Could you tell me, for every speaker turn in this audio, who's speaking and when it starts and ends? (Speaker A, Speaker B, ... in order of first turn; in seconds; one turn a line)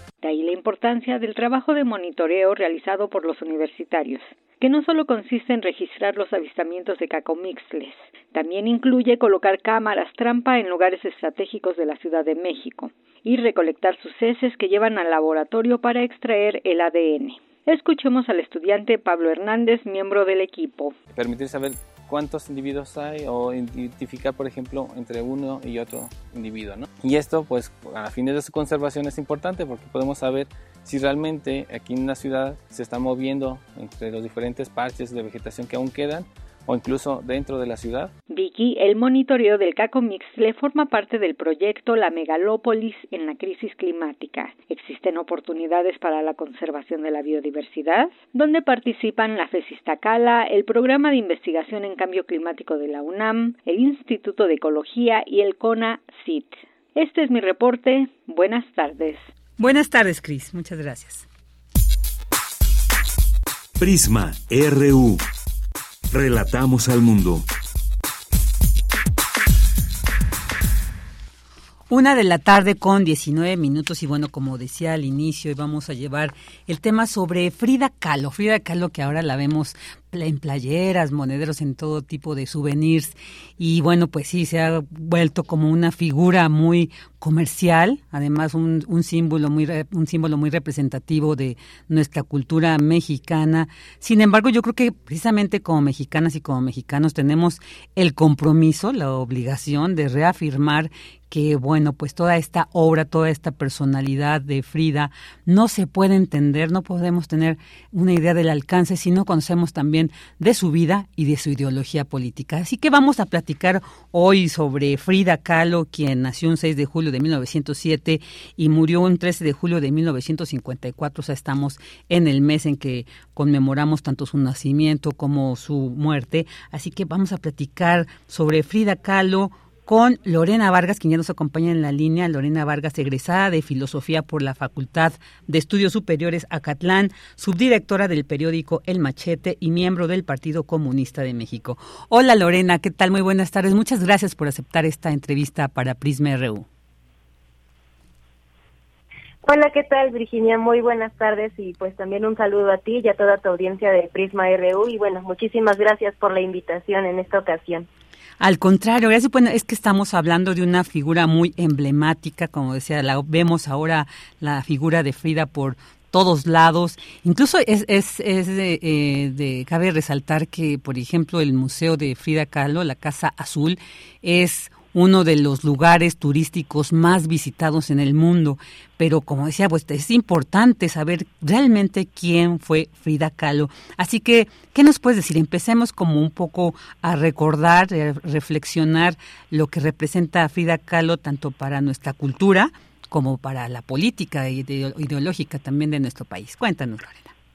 Speaker A: 0.2-21.0
Speaker B: 21.1-38.1
Speaker A: 38.3-59.3
Speaker C: 59.6-61.2
Speaker D: 63.8-65.2
Speaker D: 66.1-67.5
Speaker C: 71.9-146.7
Speaker E: 149.4-157.9
Speaker C: 158.4-197.3